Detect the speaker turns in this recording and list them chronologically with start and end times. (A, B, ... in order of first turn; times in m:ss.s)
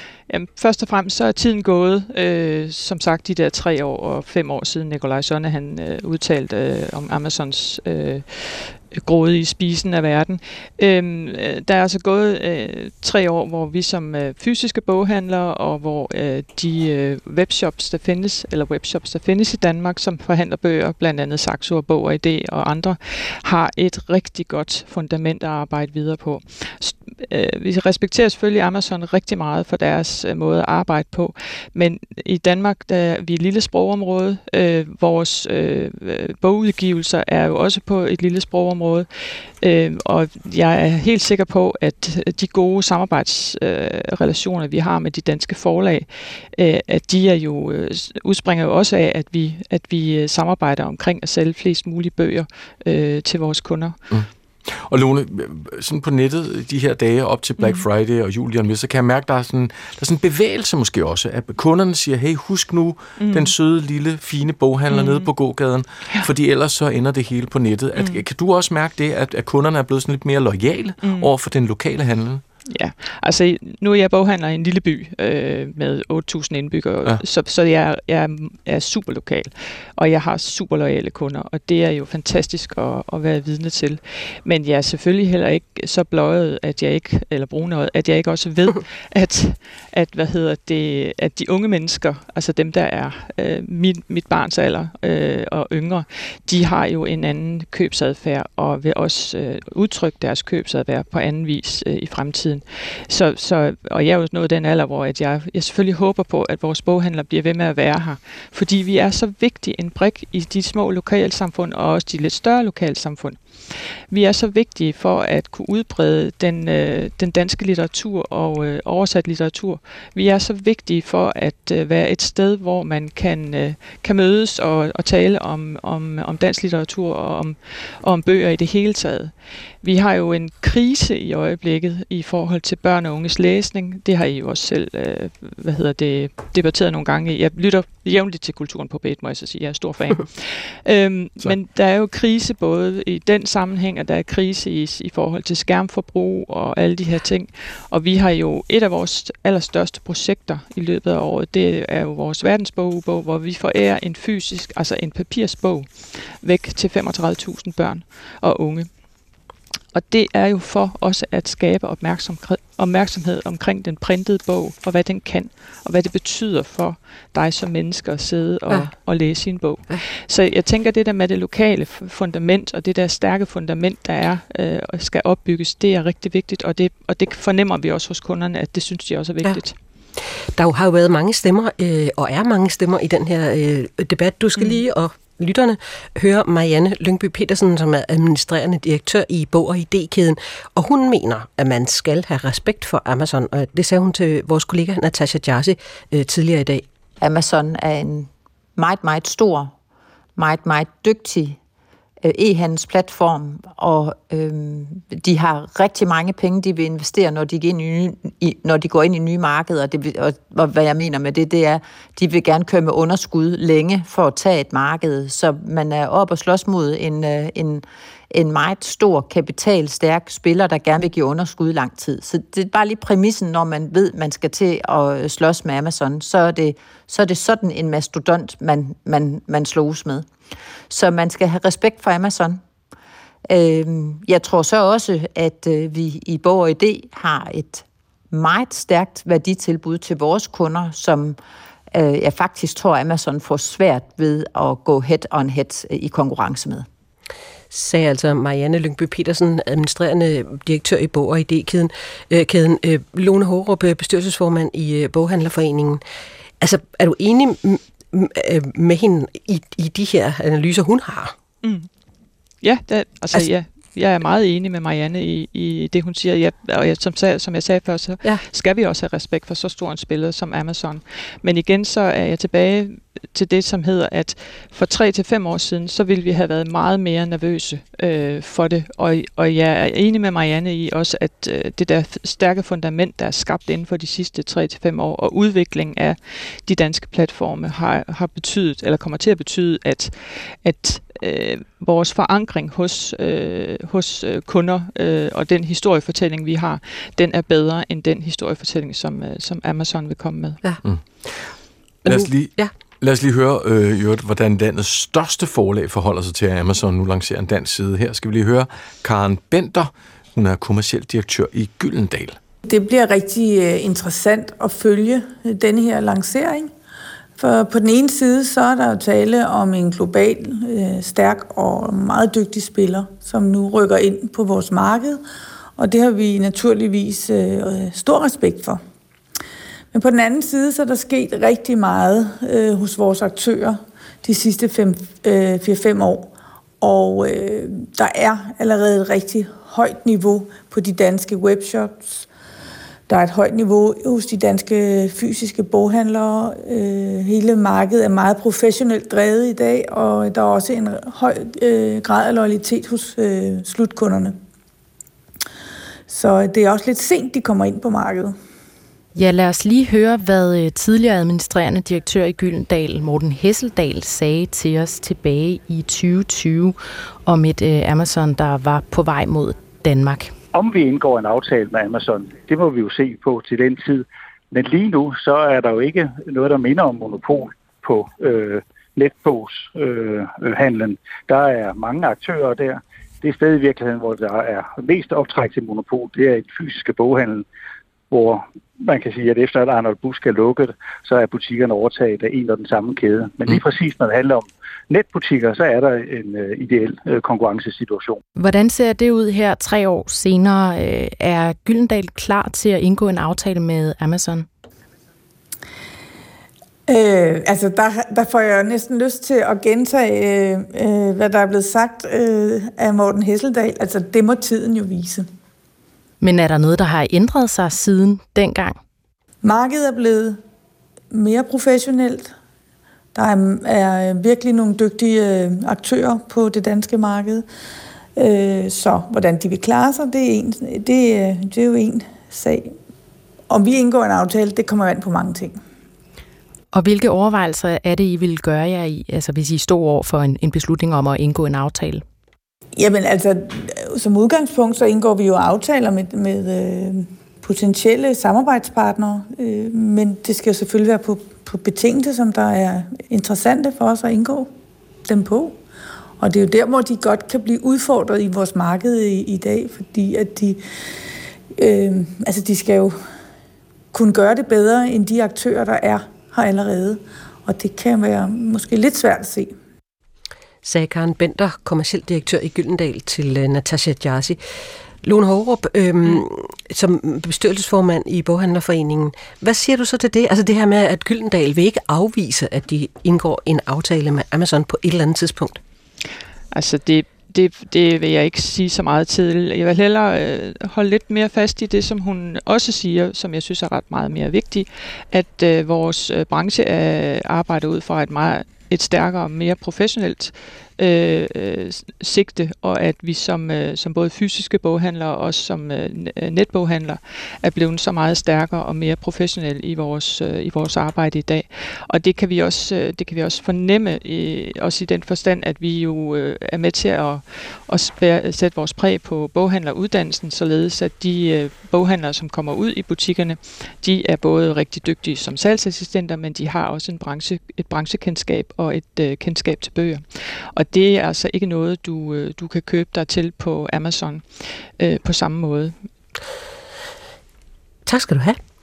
0:00.3-0:54.0 A
0:54.1-1:12.4 B
0:57.6-0:57.8 A
1:03.2-1:03.5 A
1:04.9-1:05.3 A
1:11.0-1:11.3 A
1:12.7-2:39.0 A
2:39.9-2:59.7 A
2:48.7-2:49.0 C
3:00.6-3:16.8 C
3:04.6-3:04.8 A
3:17.2-3:19.7 D
3:20.4-3:21.6 D
3:22.2-3:50.3 D
3:50.9-3:52.6 D
3:53.5-4:01.4 D
4:01.9-4:06.8 D
4:07.7-4:16.0 C
4:16.6-4:21.3 C
4:21.6-4:21.9 A
4:22.6-5:00.6 A
5:00.6-5:01.5 C
5:02.0-5:02.7 C
5:02.0-5:12.4 B
5:12.6-5:16.7 E
5:17.4-5:25.2 E
5:25.8-5:28.8 E
5:29.9-5:42.3 E
5:43.1-5:54.4 E
5:56.1-5:58.3 E
5:59.1-6:10.3 F
6:10.5-6:27.4 G
6:28.1-6:38.2 G
6:38.4-6:44.5 F
6:46.9-6:55.3 E
6:56.2-6:58.8 F
6:59.4-7:00.4 E
7:01.1-7:02.3 E
7:03.1-7:07.4 E
7:08.2-7:12.7 E
7:13.5-7:15.6 E
7:16.7-7:22.0 F
7:22.8-7:34.5 E
7:35.0-7:35.6 E
7:36.2-7:40.6 E
7:41.6-7:43.0 E
7:43.9-7:49.5 E
7:50.6-7:54.4 C
7:55.0-8:05.6 C
8:06.5-8:55.8 A
8:57.8-8:58.4 C